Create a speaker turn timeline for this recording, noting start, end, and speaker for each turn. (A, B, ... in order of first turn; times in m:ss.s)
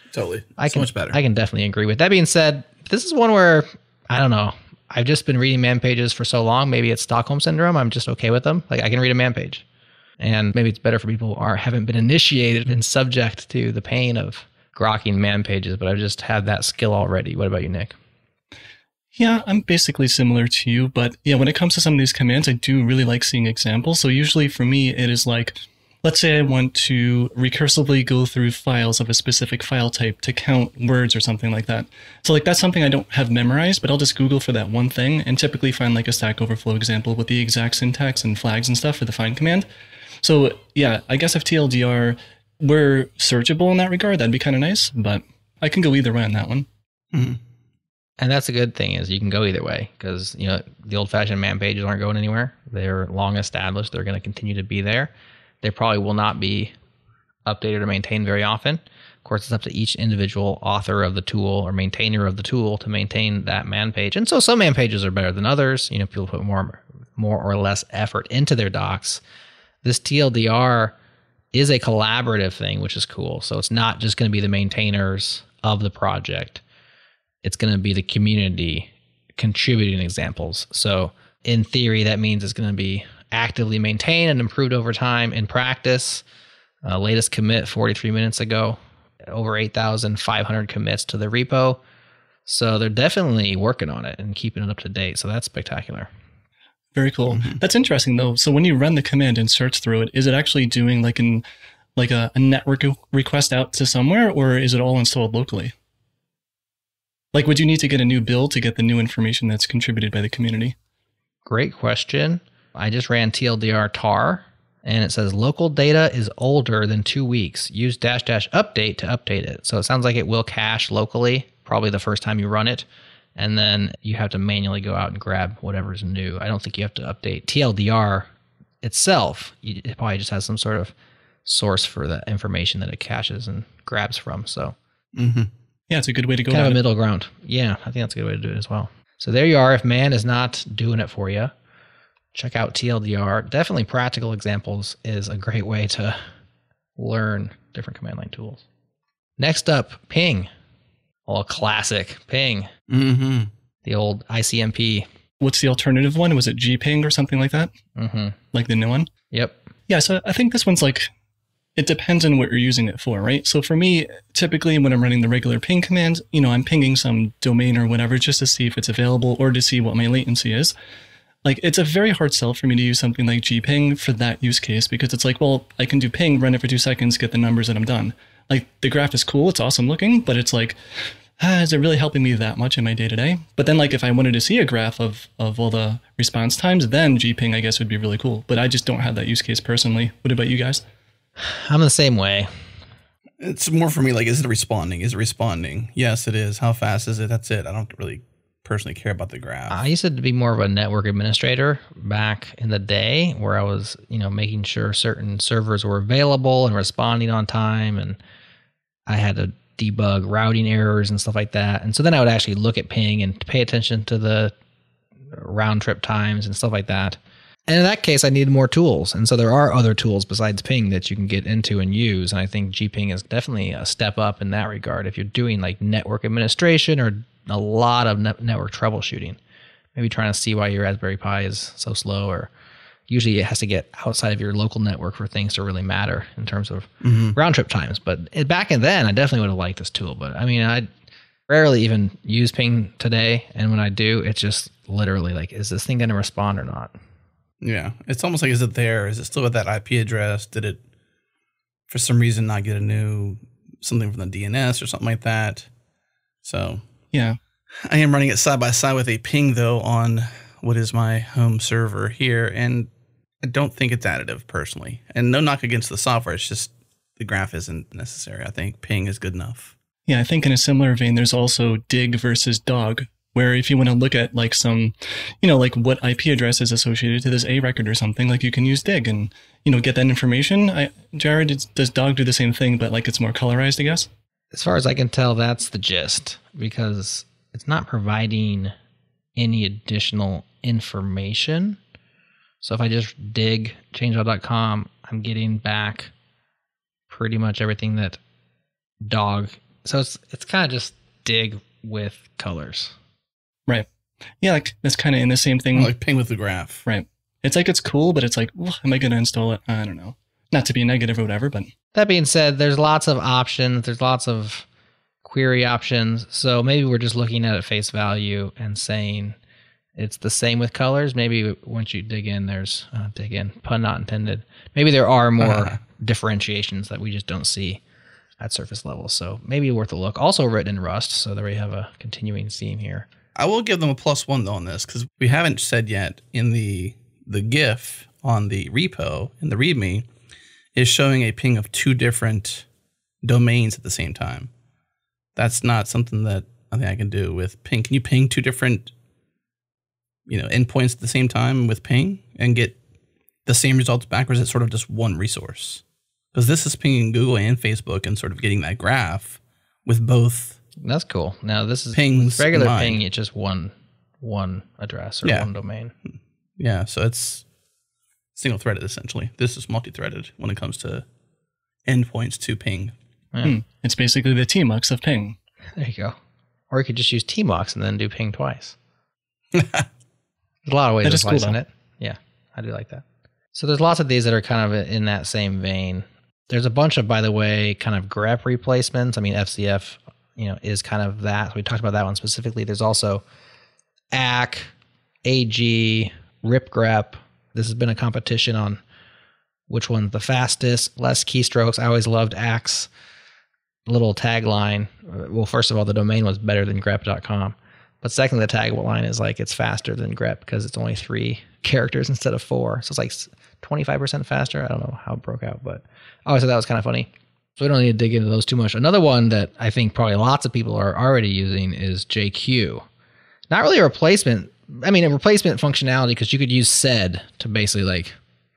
0:00.1-0:01.2 A
0:00.6-0:09.6 B
0:10.2-0:18.0 B
0:19.2-0:39.6 C
0:40.2-0:46.6 C
0:47.1-0:47.4 A
0:48.2-0:56.7 B
0:57.4-1:09.2 B
1:09.8-1:10.9 B
1:11.5-1:16.6 B
1:17.4-1:26.2 B
1:26.8-1:31.8 B
1:32.4-1:36.1 B
1:36.9-1:41.4 C
1:37.3-1:37.6 A
1:42.0-1:45.7 C
1:47.3-1:50.7 C
1:51.4-2:08.3 B
2:08.8-2:10.9 B
2:11.4-2:14.8 B
2:15.1-2:15.5 A
2:15.9-2:16.8 C
2:16.5-2:21.5 B
2:22.3-2:26.2 B
2:27.0-2:28.6 B
2:29.4-2:30.5 B
2:31.3-2:32.7 B
2:32.9-2:33.5 A
2:33.8-2:35.1 B
2:35.4-2:37.7 C
2:38.0-2:38.4 B
2:38.5-2:39.1 C
2:39.3-2:39.6 B
2:39.9-2:41.1 C
2:41.8-2:50.7 C
2:51.4-3:00.8 C
3:01.4-3:10.8 C
3:11.4-3:12.5 B
3:13.4-3:19.8 A
3:19.7-3:28.2 B
3:29.1-3:34.5 B
3:35.3-3:49.4 B
3:49.9-3:52.5 B
3:53.1-4:00.9 B
3:57.0-3:57.4 A
4:01.5-4:06.9 B
4:07.6-4:10.8 A
4:11.9-4:15.7 A
4:16.4-4:16.8 A
4:17.1-4:17.4 C
4:17.8-4:22.9 A
4:23.4-4:29.7 A
4:30.1-4:44.1 C
4:44.5-4:48.7 B
4:49.4-4:51.8 B
4:52.6-4:56.1 B
4:57.1-4:58.2 B
4:59.0-5:02.9 B
5:04.4-5:05.9 C
5:05.7-5:06.8 A
5:06.8-5:11.7 C
5:11.9-5:14.6 B
5:15.2-5:19.4 B
5:20.0-5:27.8 B
5:25.4-5:25.8 A
5:28.4-5:33.1 B
5:33.4-5:40.1 A
5:40.7-5:42.6 A
5:43.2-5:44.5 A
5:45.4-5:48.9 A
5:50.3-5:52.8 A
5:53.4-5:55.8 A
5:56.3-6:00.6 A
6:00.8-6:05.9 B
6:01.9-6:03.0 A
6:05.2-6:05.5 A
6:06.6-6:07.4 A
6:08.3-6:11.0 A
6:11.8-6:13.0 A
6:13.4-6:15.4 C
6:15.8-6:16.2 B
6:16.7-6:18.8 B
6:19.5-6:19.9 A
6:20.6-6:33.2 B
6:21.0-6:21.6 C
6:34.1-6:34.7 B
6:35.2-6:38.8 B
6:39.7-6:42.9 B
6:43.8-7:02.8 B
7:03.5-7:08.2 B